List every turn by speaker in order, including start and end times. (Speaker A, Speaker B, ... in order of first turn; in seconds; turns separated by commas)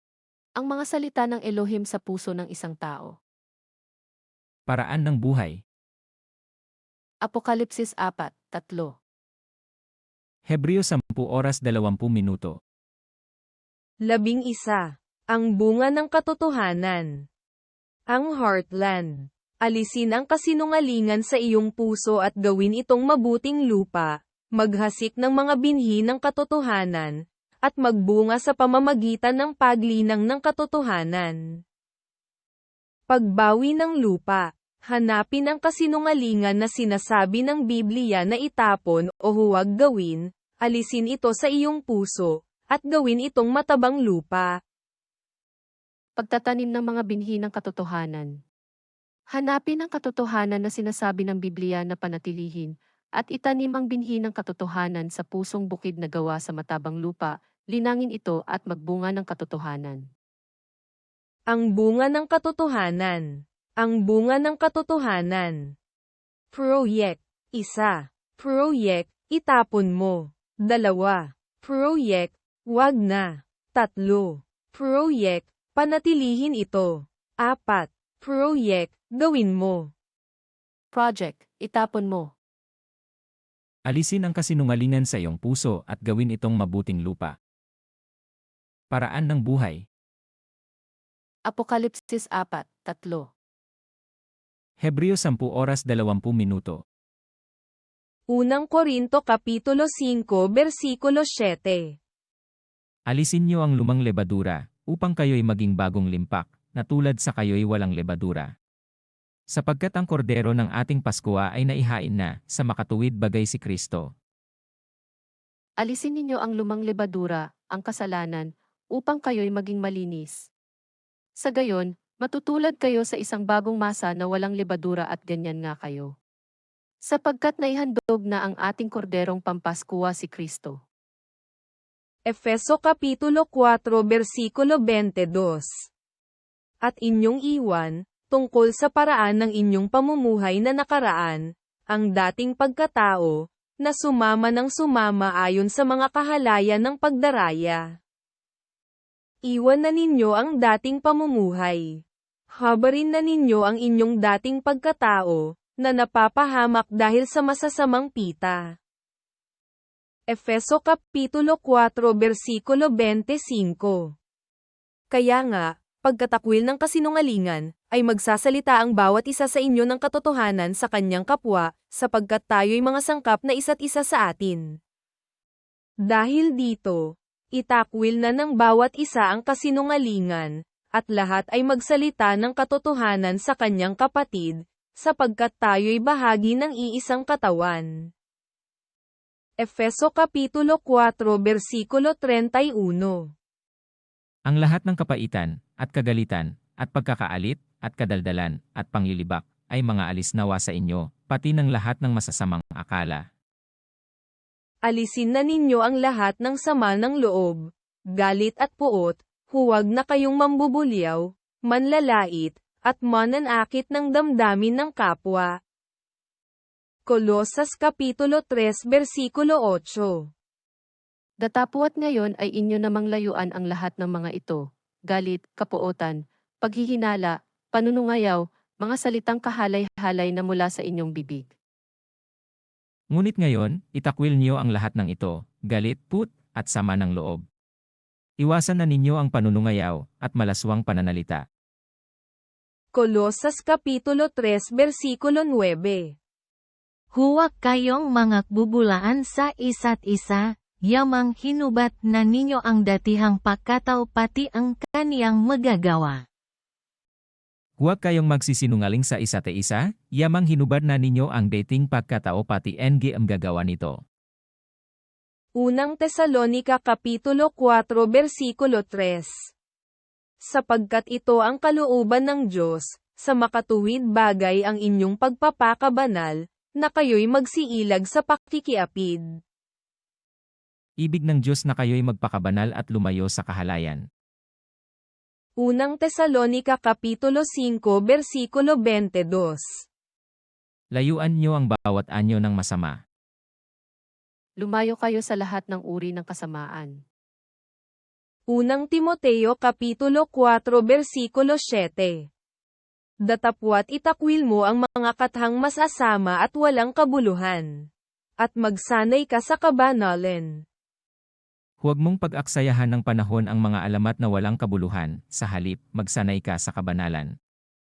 Speaker A: 0.6-3.1, Speaker B: 4.7-5.6, Speaker A: 7.2-8.9, Speaker B: 10.5-12.6, Speaker C: 14.1-17.1, Speaker C: 18.1-27.1, Speaker C: 27.6-31.4, Speaker C: 33.1-44.5, Speaker A: 46.2-48.3, Speaker A: 49.3-60.0, Speaker C: 61.5-63.2, Speaker C: 63.8-65.6, Speaker C: 66.5-79.9, Speaker A: 80.9-82.3, Speaker B: 83.9-87.3, Speaker B: 88.9-89.8, Speaker A: 91.5-93.3, Speaker B: 94.8-96.8, Speaker C: 98.3-101.9, Speaker B: 103.1-108.5, Speaker B: 109.5-114.1, Speaker A: 115.8-120.3, Speaker A: 121.4-126.1, Speaker A: 127.1-130.7, Speaker C: 132.3-135.7, Speaker C: 136.8-147.8, Speaker C: 149.4-151.9, Speaker C: 152.6-158.6, Speaker C: 160.3-164.1, Speaker C: 165.1-174.6, Speaker C: 176.1-177.0, Speaker C: 177.6-187.9, Speaker C: 189.6-193.2, Speaker B: 194.5-203.2, Speaker C: 204.9-207.6, Speaker C: 208.2-215.5, Speaker C: 217.1-220.2, Speaker A: 221.4-231.5, Speaker B: 233.1-237.4, Speaker B: 238.4-241.4, Speaker C: 242.9-246.1, Speaker D: 247.1-256.2, Speaker B: 257.8-264.0, Speaker C: 265.6-269.3, Speaker C: 270.4-279.2, Speaker B: 281.0-284.0, Speaker C: 285.6-289.6, Speaker B: 290.9-293.0, Speaker A: 294.6-296.9, Speaker C: 298.5-302.2, Speaker C: 303.2-307.7, Speaker C: 308.4-310.6, Speaker B: 311.8-317.3